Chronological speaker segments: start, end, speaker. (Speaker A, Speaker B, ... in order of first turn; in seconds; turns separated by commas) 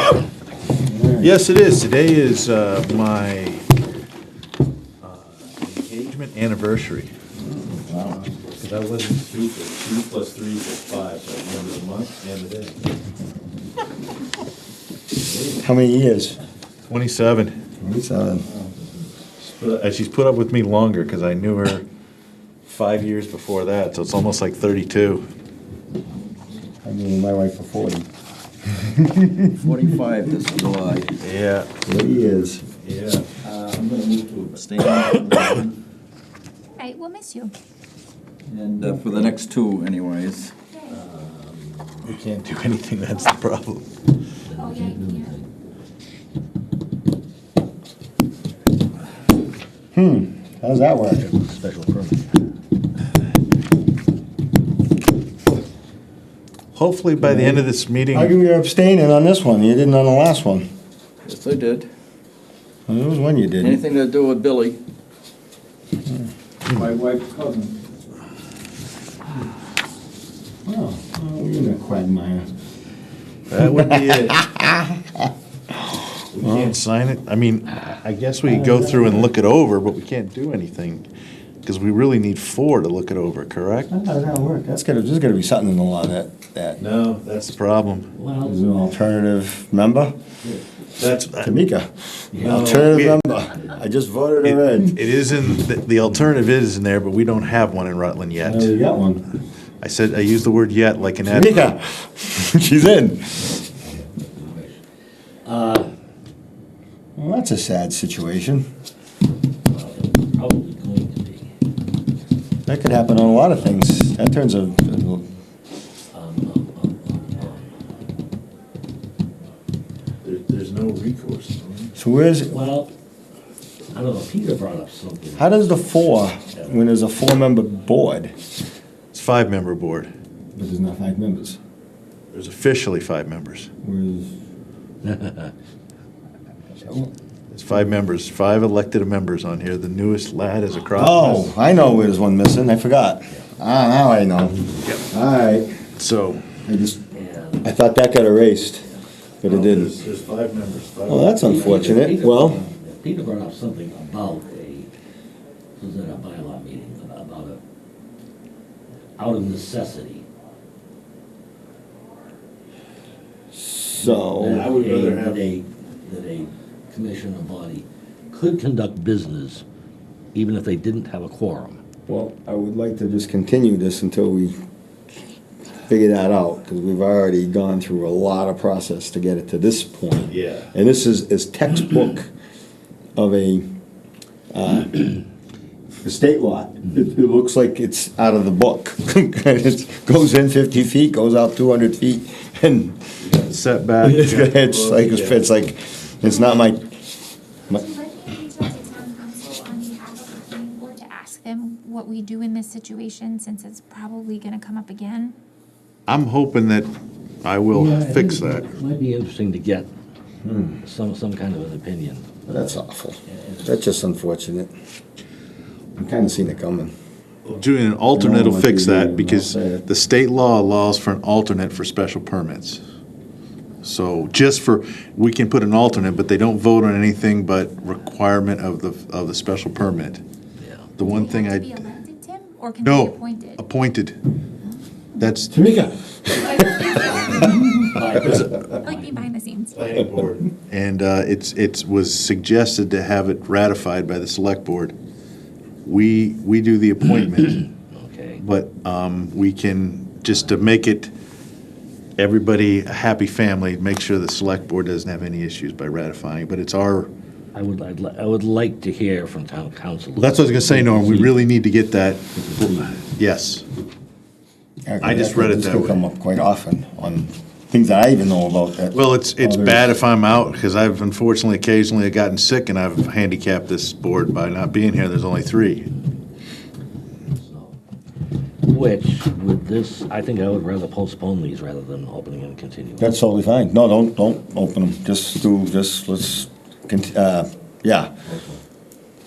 Speaker A: 0.8-1.3, Speaker B: 1.2-3.6, Speaker B: 5.0-7.1, Speaker A: 7.4-8.3, Speaker B: 8.5-12.8, Speaker A: 15.5-16.4, Speaker B: 16.9-17.6, Speaker A: 17.8-18.5, Speaker B: 19.4-21.9, Speaker B: 22.6-25.2, Speaker A: 26.8-28.1, Speaker A: 28.7-29.5, Speaker C: 29.6-31.2, Speaker B: 31.2-31.7, Speaker A: 31.8-32.6, Speaker B: 32.8-33.3, Speaker C: 33.4-35.7, Speaker D: 36.8-37.5, Speaker C: 38.5-40.5, Speaker D: 40.7-41.0, Speaker E: 40.9-42.0, Speaker B: 42.0-43.9, Speaker E: 44.5-45.5, Speaker D: 44.5-45.3, Speaker A: 49.9-51.3, Speaker E: 51.1-52.3, Speaker B: 56.7-58.3, Speaker A: 57.2-60.7, Speaker C: 61.2-61.9, Speaker A: 62.9-63.8, Speaker C: 63.6-64.8, Speaker C: 66.7-67.8, Speaker A: 70.7-72.5, Speaker B: 73.5-74.5, Speaker A: 73.6-76.7, Speaker B: 76.3-81.1, Speaker A: 78.4-79.3, Speaker B: 81.6-83.9, Speaker A: 83.9-86.8, Speaker B: 86.8-88.1, Speaker E: 88.1-88.6, Speaker A: 88.4-90.1, Speaker B: 91.0-91.5, Speaker A: 91.4-95.0, Speaker E: 92.3-92.8, Speaker B: 92.4-93.3, Speaker B: 94.4-98.8, Speaker A: 98.4-99.3, Speaker B: 99.8-101.7, Speaker A: 101.2-103.6, Speaker E: 103.8-104.8, Speaker E: 105.5-105.9, Speaker A: 107.2-108.6, Speaker E: 109.7-111.5, Speaker A: 112.7-115.2, Speaker E: 116.1-117.8, Speaker B: 120.2-121.9, Speaker A: 122.0-122.6, Speaker E: 122.5-122.9, Speaker E: 123.9-125.6, Speaker A: 125.4-128.3, Speaker B: 129.1-130.1, Speaker A: 130.5-131.6, Speaker B: 132.3-133.7, Speaker A: 133.8-134.3, Speaker E: 135.0-135.5, Speaker A: 136.7-137.1, Speaker B: 137.5-141.5, Speaker A: 140.9-145.9, Speaker B: 146.0-146.4, Speaker A: 146.6-147.0, Speaker E: 147.1-147.7, Speaker A: 147.6-148.9, Speaker A: 149.4-150.0, Speaker B: 149.4-151.7, Speaker A: 151.1-152.6, Speaker E: 151.4-154.9, Speaker E: 155.8-157.6, Speaker E: 159.2-160.2, Speaker A: 163.5-164.7, Speaker E: 164.0-169.6, Speaker B: 164.4-165.5, Speaker E: 170.3-171.8, Speaker A: 172.1-174.5, Speaker A: 175.8-182.3, Speaker B: 180.3-180.7, Speaker A: 183.2-183.7, Speaker A: 184.5-185.2, Speaker A: 186.0-193.1, Speaker B: 193.2-195.5, Speaker A: 194.0-197.0, Speaker D: 197.7-205.3, Speaker B: 206.1-206.9, Speaker B: 207.4-208.7, Speaker E: 207.7-209.9, Speaker A: 210.4-210.8, Speaker E: 210.8-212.3, Speaker A: 212.5-214.7, Speaker E: 213.3-213.6, Speaker A: 215.9-216.9, Speaker B: 217.4-222.8, Speaker A: 218.1-219.8, Speaker B: 223.8-230.2, Speaker E: 230.6-230.9, Speaker B: 231.0-231.8, Speaker D: 231.0-233.6, Speaker B: 232.8-234.2, Speaker B: 235.2-235.6, Speaker A: 235.5-237.2, Speaker D: 236.3-239.8, Speaker E: 237.2-239.2, Speaker B: 239.7-244.9, Speaker B: 245.8-247.7, Speaker E: 247.9-248.4, Speaker B: 248.4-251.1, Speaker B: 252.2-257.1, Speaker E: 257.5-261.5, Speaker B: 260.2-263.6, Speaker E: 262.3-263.0, Speaker A: 264.8-269.9, Speaker B: 265.0-266.1, Speaker B: 268.9-275.9, Speaker E: 277.3-277.8, Speaker E: 278.6-283.1, Speaker A: 283.0-288.1, Speaker E: 288.2-288.6